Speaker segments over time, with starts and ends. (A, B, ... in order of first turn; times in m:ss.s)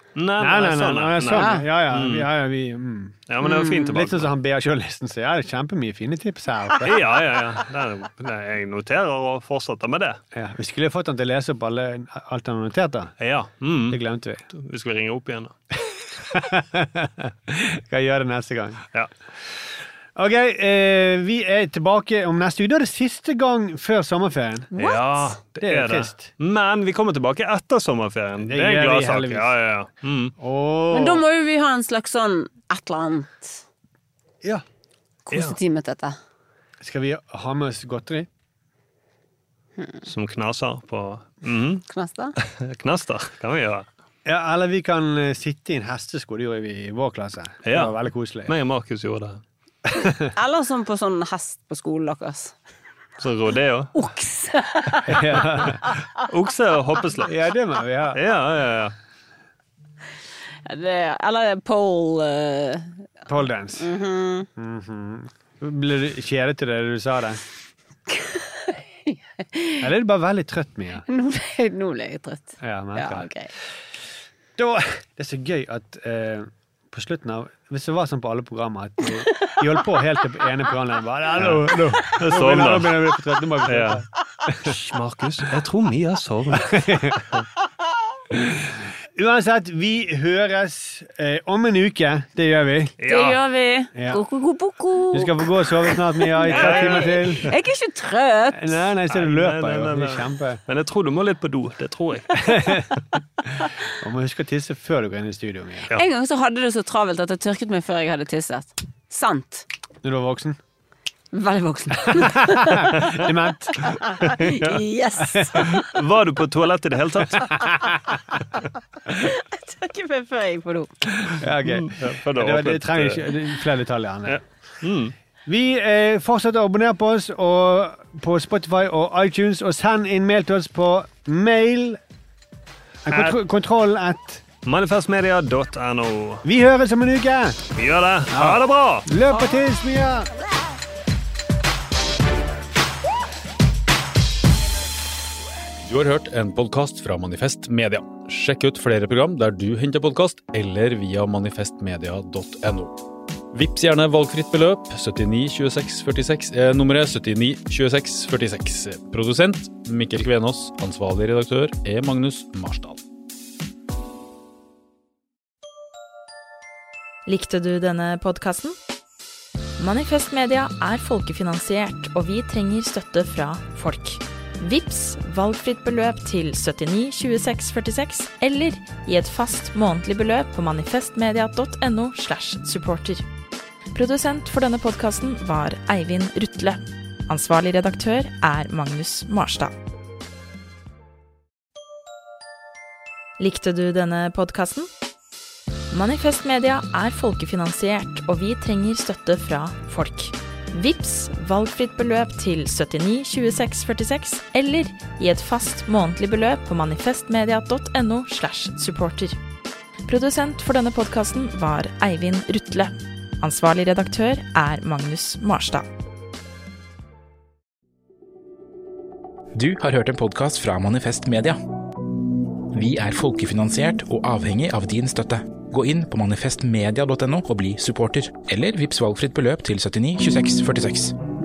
0:00.2-0:02.3 A
0:00.4-0:07.1 B
0:01.3-0:01.6 C
0:03.3-0:04.3 A
0:03.4-0:03.8 C
0:06.8-0:10.2 A
0:10.3-0:13.2 B
0:13.2-0:14.0 A
0:13.9-0:14.4 B
0:14.5-0:15.5 A
0:15.9-0:18.8 B
0:19.4-0:24.7 B
0:24.8-0:25.4 C
0:24.8-0:30.3 A
0:25.6-0:26.3 B
0:28.5-0:29.6 B
0:30.4-0:31.2 B
0:30.9-0:33.6 C
0:35.3-0:36.2 C
0:36.8-0:38.3 B
0:40.1-0:41.8 A
0:41.9-0:42.3 C
0:42.4-0:43.9 A
0:44.2-0:48.5 B
0:47.7-0:49.4 A
0:49.9-0:50.3 B
0:50.4-0:52.6 C
0:53.2-0:53.9 A
0:54.0-0:56.0 C
0:55.1-0:55.8 B
0:56.2-0:57.3 A
0:57.2-0:58.2 B
0:58.1-0:58.9 A
1:00.7-1:03.0 C
1:03.3-1:03.9 B
1:03.8-1:04.5 C
1:04.6-1:07.4 B
1:08.1-1:09.9 C
1:09.8-1:11.1 B
1:11.1-1:13.5 C
1:12.6-1:13.8 B
1:14.6-1:24.7 B
1:21.4-1:21.6 A
1:22.2-1:23.0 A
1:23.7-1:24.0 A
1:24.6-1:26.9 A
1:26.6-1:27.2 B
1:28.4-1:33.0 B
1:33.0-1:33.4 A
1:33.1-1:38.8 C
1:34.0-1:34.2 B
1:35.1-1:37.5 B
1:36.5-1:37.3 A
1:38.5-1:40.6 B
1:39.1-1:42.8 A
1:42.4-1:43.0 B
1:44.0-1:45.9 B
1:45.9-1:49.7 C
1:50.0-1:50.6 B
1:51.3-1:53.2 C
1:52.1-1:54.3 B
1:53.8-1:55.9 C
1:54.2-1:54.8 A
1:55.6-1:57.6 A
1:59.1-2:01.1 C
2:01.3-2:04.4 B
2:01.6-2:03.3 A
2:04.3-2:05.1 A
2:05.5-2:12.0 B
2:13.0-2:14.4 B
2:13.1-2:13.4 A
2:14.6-2:16.4 A
2:16.4-2:17.6 B
2:17.8-2:19.1 A
2:18.3-2:20.3 B
2:25.8-2:43.0 D
2:47.3-2:48.8 E
2:49.8-3:03.2 E
3:03.9-3:09.7 E
3:13.4-3:14.9 E
3:15.9-3:29.4 E
3:30.1-3:35.9 E
3:39.6-3:41.6 F
3:42.7-3:51.2 F